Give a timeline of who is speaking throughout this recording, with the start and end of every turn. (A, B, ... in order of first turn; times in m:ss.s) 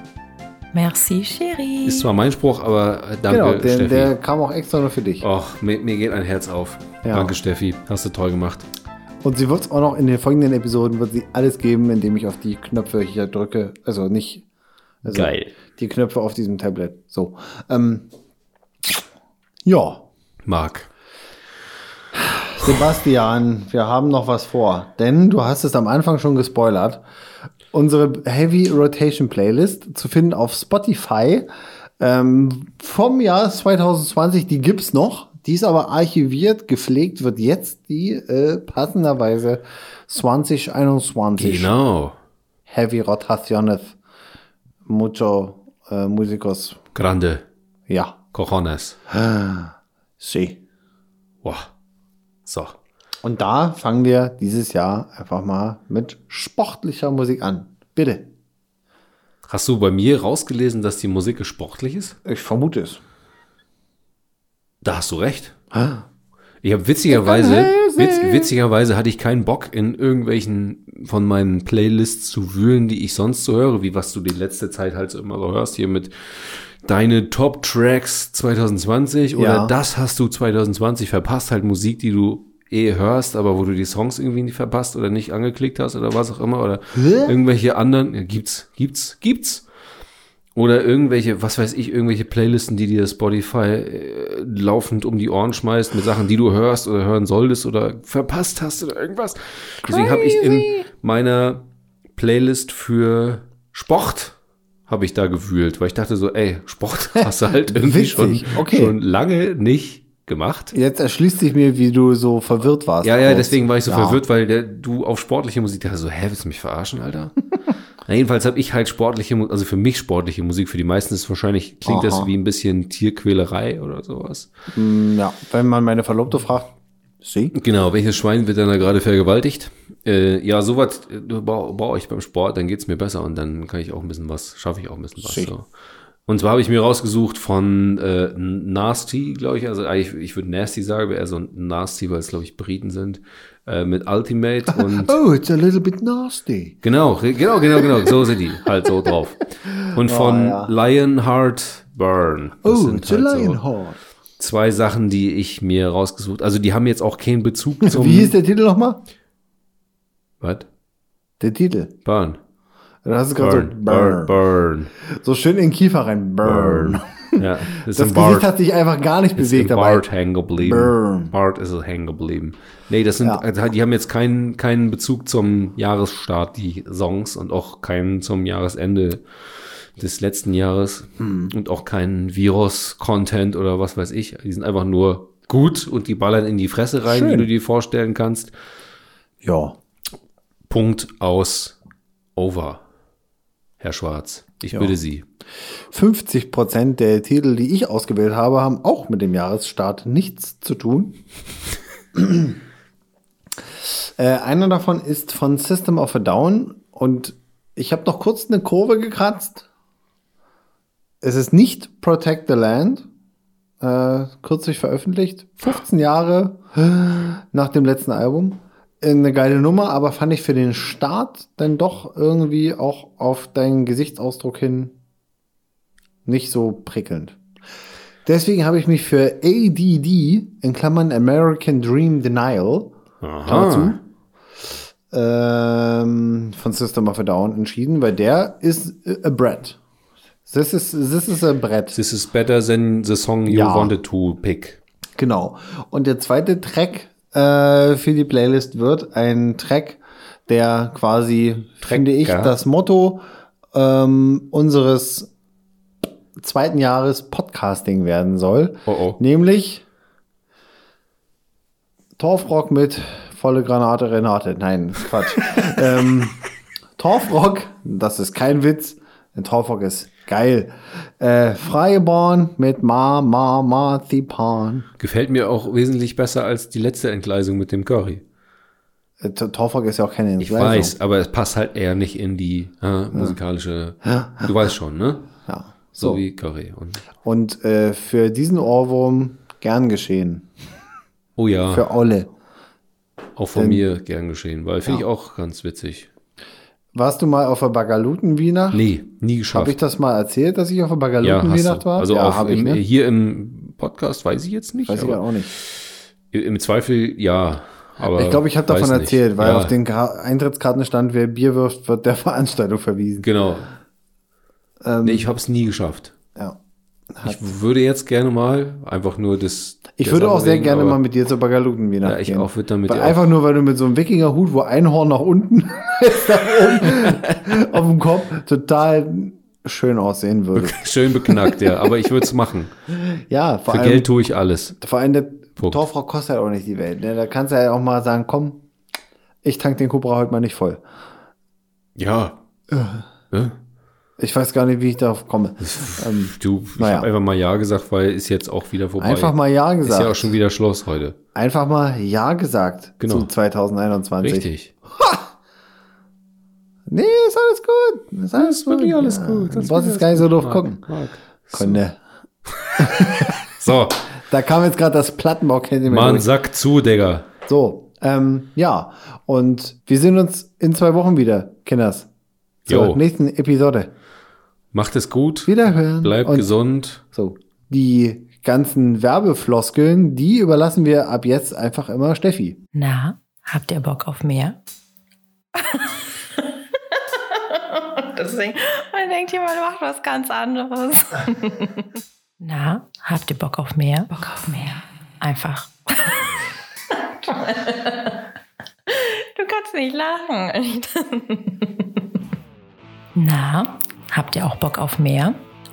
0:00.7-0:02.1 A
0:01.8-0:04.1 B
0:03.3-0:05.3 C
0:05.2-0:08.7 B
0:07.0-0:07.4 C
0:09.2-0:14.4 C
0:15.0-0:18.1 C
0:15.0-0:15.5 B
0:19.6-0:20.0 C
0:20.4-0:20.9 B
0:22.2-0:27.0 C
0:27.7-0:31.5 C
0:32.0-0:41.7 C
0:41.4-0:42.2 B
0:42.7-0:44.0 C
0:44.8-0:46.8 C
0:46.9-0:47.4 B
0:47.9-0:48.2 C
0:48.3-0:49.0 B
0:49.1-0:50.6 C
0:51.4-0:51.7 B
0:52.4-0:52.8 B
0:53.2-0:58.3 C
0:59.4-1:02.2 B
1:02.2-1:03.0 C
1:04.8-1:05.5 B
1:05.7-1:06.0 C
1:06.6-1:29.6 B
1:07.1-1:08.5 C
1:19.3-1:19.7 C
1:27.0-1:27.3 C
1:30.5-1:41.6 B
1:39.8-1:40.9 C
1:42.2-1:44.4 B
1:44.9-1:50.7 B
1:47.2-1:48.9 C
1:50.7-1:54.2 C
1:53.0-1:57.3 B
1:58.0-2:04.5 B
2:01.8-2:02.3 C
2:04.7-2:07.5 C
2:07.5-2:15.7 B
2:15.2-2:15.5 C
2:16.2-2:25.2 B
2:24.7-2:26.8 C
2:26.8-2:33.6 B
2:27.8-2:28.1 C
2:29.8-2:30.7 C
2:32.6-2:34.0 C
2:34.4-2:38.4 B
2:37.8-2:39.0 C
2:40.4-2:40.7 B
2:41.4-2:41.9 C
2:42.0-2:42.4 B
2:43.0-2:44.4 C
2:43.4-2:44.9 B
2:45.0-2:50.0 C
2:46.4-2:48.5 B
2:49.4-3:08.5 B
2:50.6-2:51.3 C
3:01.2-3:01.5 C
3:07.0-3:07.5 C
3:09.4-3:09.8 C
3:10.7-3:11.8 B
3:12.4-3:12.8 B
3:13.8-3:15.2 B
3:15.9-3:21.2 C
3:22.1-3:22.6 C
3:23.8-3:29.7 C
3:31.2-3:33.1 C
3:33.8-3:45.0 C
3:46.2-3:47.4 C
3:48.2-3:54.0 C
3:53.2-3:54.0 B
3:55.1-3:59.8 C
4:00.4-4:02.0 C
4:01.9-4:04.8 B
4:03.5-4:03.9 C
4:05.2-4:15.3 C
4:11.8-4:12.6 B
4:16.4-4:19.8 C
4:18.9-4:19.2 B
4:22.2-4:26.4 C
4:27.0-4:34.9 C
4:35.0-4:38.2 B
4:39.2-4:40.9 C
4:40.4-4:45.3 B
4:44.0-4:44.4 C
4:45.5-4:46.2 C
4:46.0-4:47.0 B
4:47.2-4:50.5 C
4:51.4-4:51.9 B
4:51.7-4:52.3 C
4:53.4-4:56.1 B
4:53.5-4:53.8 C
4:56.9-4:58.9 C
4:58.7-4:59.8 B
4:59.5-5:02.8 C
5:01.2-5:09.7 B
5:04.8-5:05.5 C
5:08.0-5:13.3 C
5:13.2-5:13.7 B
5:14.8-5:15.3 C
5:15.0-5:16.1 B
5:17.1-5:17.4 C
5:17.2-5:21.0 B
5:20.0-5:31.9 C
5:22.0-5:23.2 B
5:26.7-5:27.6 B
5:30.5-5:32.7 B
5:32.9-5:34.1 C
5:33.7-5:34.8 B
5:34.8-5:38.6 C
5:39.4-5:40.8 C
5:42.0-5:42.4 B
5:42.7-5:43.0 C
5:43.3-5:43.6 B
5:44.2-5:47.1 C
5:45.6-5:51.2 B
5:49.0-5:50.3 C
5:51.3-5:55.2 C
5:53.0-5:53.3 B
5:54.2-5:54.7 B
5:56.9-6:00.8 C
5:58.4-6:01.8 B
6:01.5-6:02.0 C
6:02.5-6:04.0 B
6:02.8-6:03.4 C
6:04.1-6:06.3 C
6:05.9-6:07.3 B
6:07.5-6:12.1 C
6:12.7-6:13.0 B
6:12.7-6:13.9 C
6:14.7-6:17.0 B
6:15.4-6:16.5 C
6:17.1-6:22.6 C
6:22.7-6:24.6 A
6:25.5-6:31.9 A
6:32.4-6:36.3 A
6:36.9-6:38.2 A
6:38.9-6:42.0 A
6:43.1-6:45.4 A